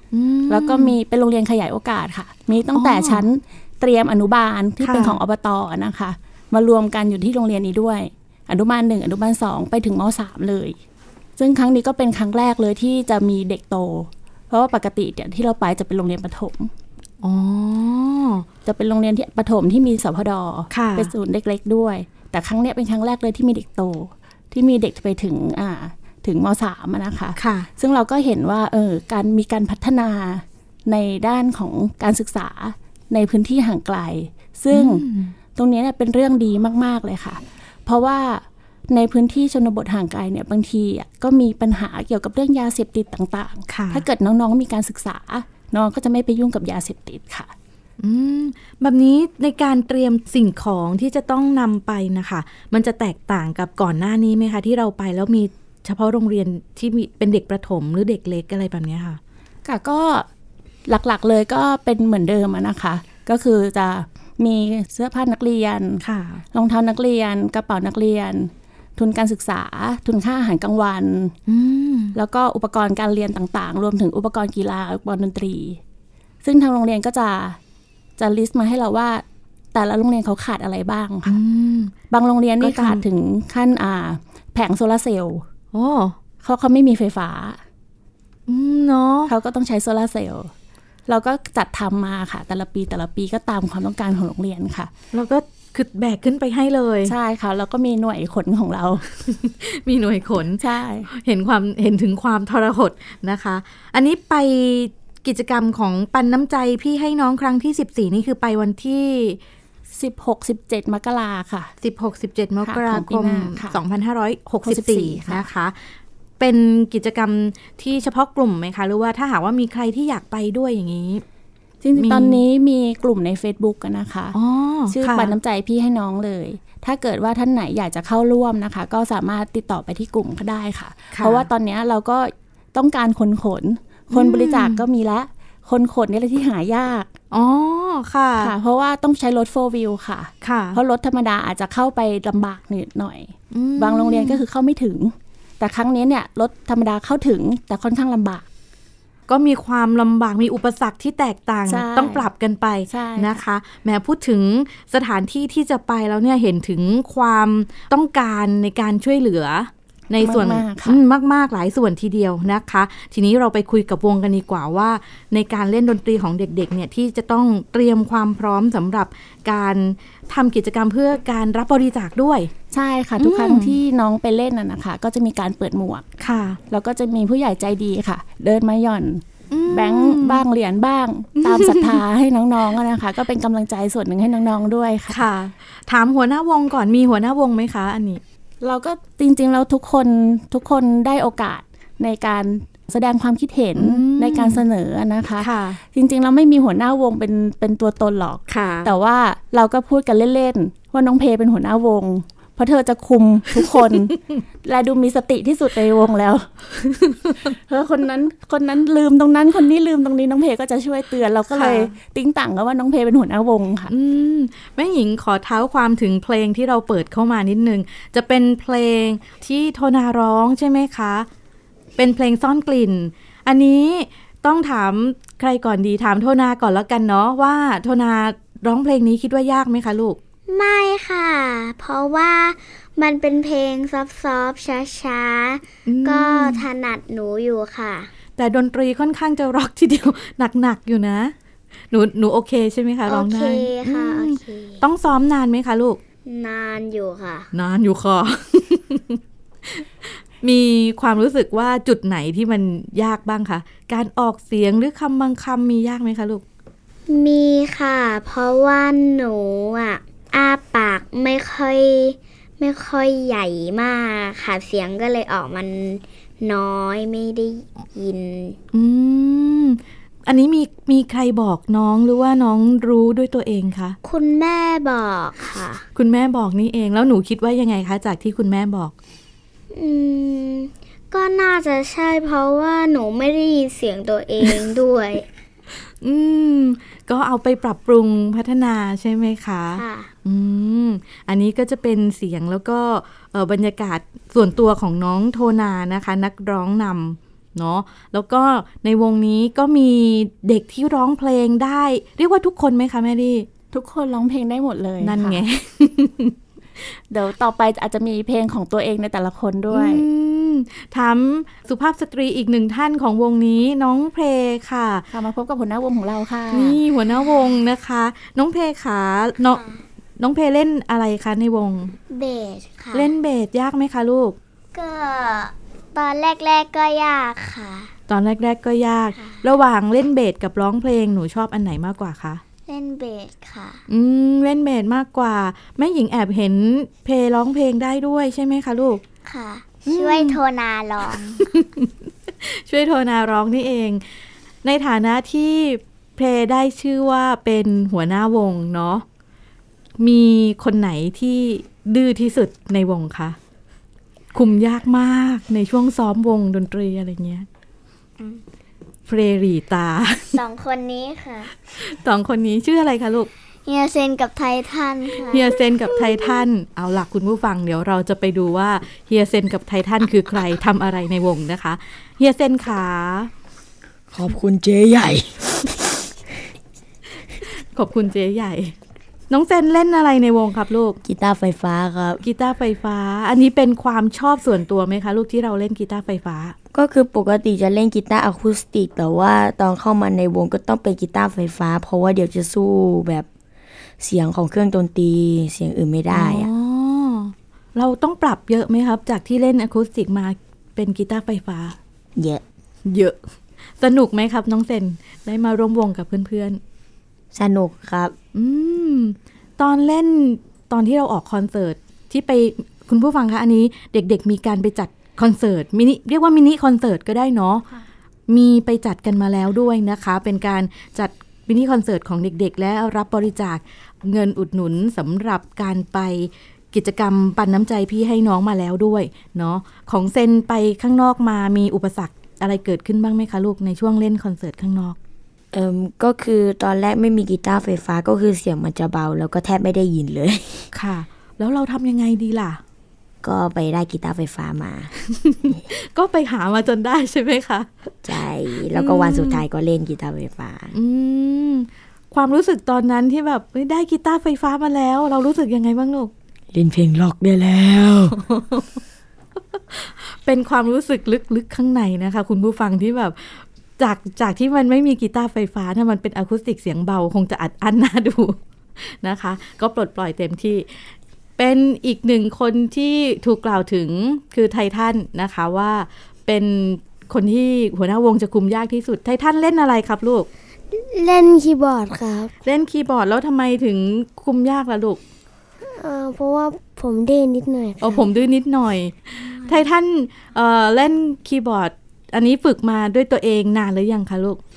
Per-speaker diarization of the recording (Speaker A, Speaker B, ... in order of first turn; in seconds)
Speaker A: 0.1-0.9, 2.7-3.2, 4.8-5.2, 17.2-18.4, 20.7-21.1, 27.4-27.7, 34.7-35.3, 43.7-44.0, 48.0-59.2, 66.0-66.4, 71.5-72.1, 81.2-81.9, 82.6-83.0, 85.7-86.1, 88.5-89.3, 95.1-97.1, 99.3-109.4, 111.8-115.8, 116.4-121.2, 122.0-122.4, 124.3-125.3, 131.1-131.5, 134.1-134.8, 137.3-138.5, 140.4-140.8, 143.5-144.4, 149.3-172.5, 173.2-173.8, 176.2-176.6, 179.5-180.4, 181.4-182.0, 185.1-188.2, 193.8-194.6, 195.4-195.8, 198.5-198.9, 211.5-211.9, 213.9-221.3, 222.0-230.2, 235.8-236.6, 238.3-241.3, 241.9-246.0, 247.5-249.8, 250.4-256.4, 268.7-274.0, 275.9-278.9, 286.0-303.5, 305.0-306.3, 309.7-315.1, 316.5-319.6, 320.2-321.9, 322.9-324.4, 328.1-332.4, 333.9-339.0, 339.9-340.4, 341.4-341.9, 342.4-344.0, 344.6-349.0, 350.0-353.4, 354.3-357.4, 359.1-360.4, 361.8-363.3, 365.2-373.3, 377.7-378.7, 379.3-381.0, 382.2-386.5, 396.1-401.8, 402.9-403.2, 403.8-406.6, 408.3-417.6, 418.3-435.0, 440.7-442.6, 445.2-447.7, 448.7-449.4, 450.7-456.1, 458.1-458.6, 459.7-468.4, 468.9-470.7, 471.4-480.3, 482.4-485.0, 487.8-494.4
Speaker B: 0.5-10.8, 11.4-16.7, 18.6-47.5, 59.6-60.3, 60.9-66.0, 66.5-71.3, 72.1-75.8, 76.4-77.6, 78.2-79.2, 79.7-81.4, 82.1-85.4, 86.4-87.6, 89.3-90.5, 91.1-94.9, 97.0-99.0, 100.6-101.1, 110.0-111.7, 112.6-113.8, 114.6-115.5, 121.8-124.4, 124.9-137.1, 138.4-148.4, 151.7-152.3, 152.9-153.4, 160.2-161.0, 172.7-176.1, 176.7-185.2, 188.6-206.6, 207.4-213.9, 303.7-305.4, 307.1-310.0, 315.1-316.8
Speaker C: 230.5-238.1, 243.1-244.8, 246.2-247.5, 257.1-268.6, 274.0-275.8, 279.7-285.2, 289.7-290.1, 319.4-319.8, 322.1-323.1, 324.7-327.9, 329.1-329.5, 332.7-333.8, 339.2-341.4, 360.3-361.5, 363.6-366.4
Speaker D: 374.1-375.5, 381.0-382.2, 386.7-393.3, 394.0-396.5, 402.1-402.4, 407.3-408.1, 435.5-440.7, 443.2-444.9, 448.0-450.8, 456.5-458.2
Speaker E: 480.7-482.3, 485.7-488.1